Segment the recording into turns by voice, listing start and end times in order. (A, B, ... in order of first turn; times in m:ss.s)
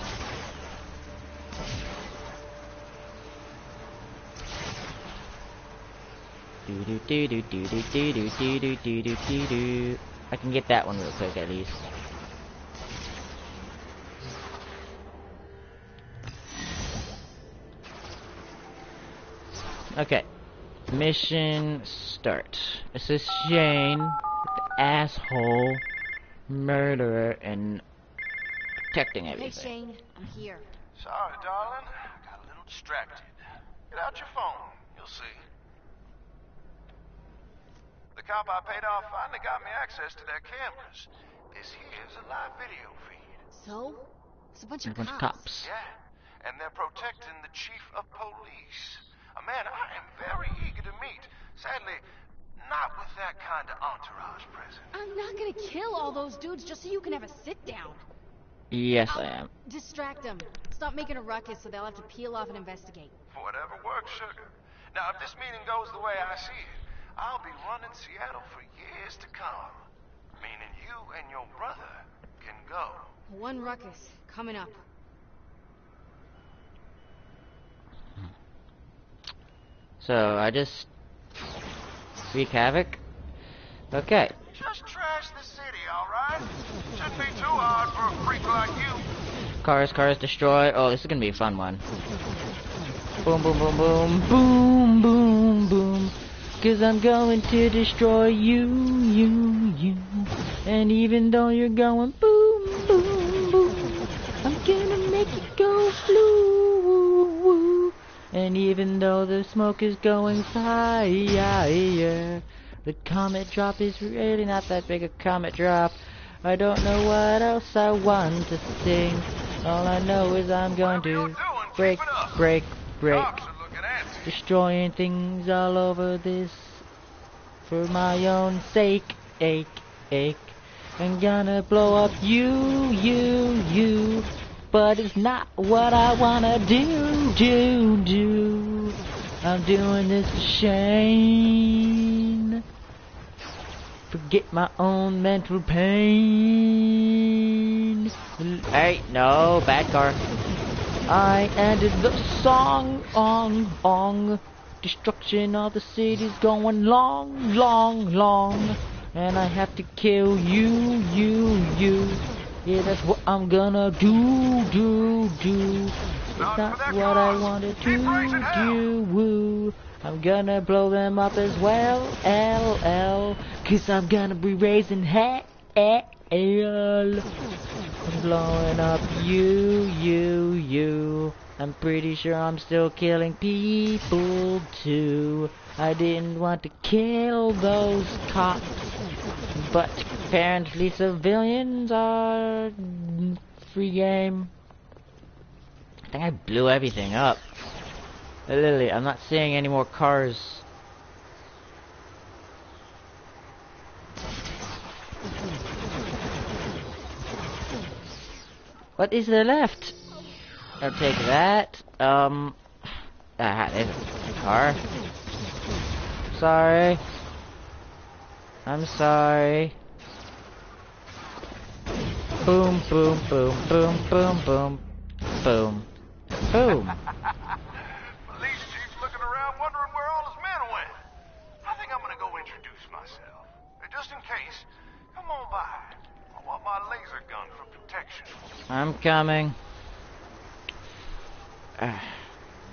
0:06.6-0:11.8 A
0:19.9-0:20.3 A
0:20.9-0:24.2 A
0:24.8-0:25.8 A
0:26.5-0:27.8 A
0:28.9-0:29.7 A
0:29.3-0:30.7 B
0:31.0-0:35.4 C
0:38.1-0:43.4 C
0:43.5-0:45.4 B
0:44.8-0:45.7 A
0:45.6-0:52.0 C
0:52.6-0:54.9 C
0:54.9-0:58.0 B
0:58.7-0:59.5 A
0:59.1-1:03.2 B
1:03.3-1:09.8 C
1:10.4-1:13.1 C
1:13.3-1:14.8 B
1:20.0-1:20.9 A
1:22.3-1:23.0 A
1:23.9-1:24.3 A
1:24.5-1:29.1 C
1:29.6-1:31.8 A
1:33.2-2:03.3 A
2:00.8-2:02.4 C
2:03.1-2:04.3 C
2:04.2-2:06.8 A
2:07.6-2:22.6 A
2:24.1-2:30.2 A
2:31.1-2:57.3 A
2:46.4-2:48.8 C
2:58.0-3:08.8 A
3:09.5-3:14.5 A
3:16.1-3:17.4 A
3:18.5-3:20.6 A
3:29.0-3:29.9 A
3:30.8-3:32.6 A
3:33.4-3:34.8 A
3:36.3-3:37.0 A
3:38.6-3:39.8 A
3:42.4-3:44.8 A
3:45.4-3:47.0 A
3:48.0-3:51.0 C
3:51.6-3:58.4 C
3:58.7-3:59.6 A
4:01.8-4:02.3 A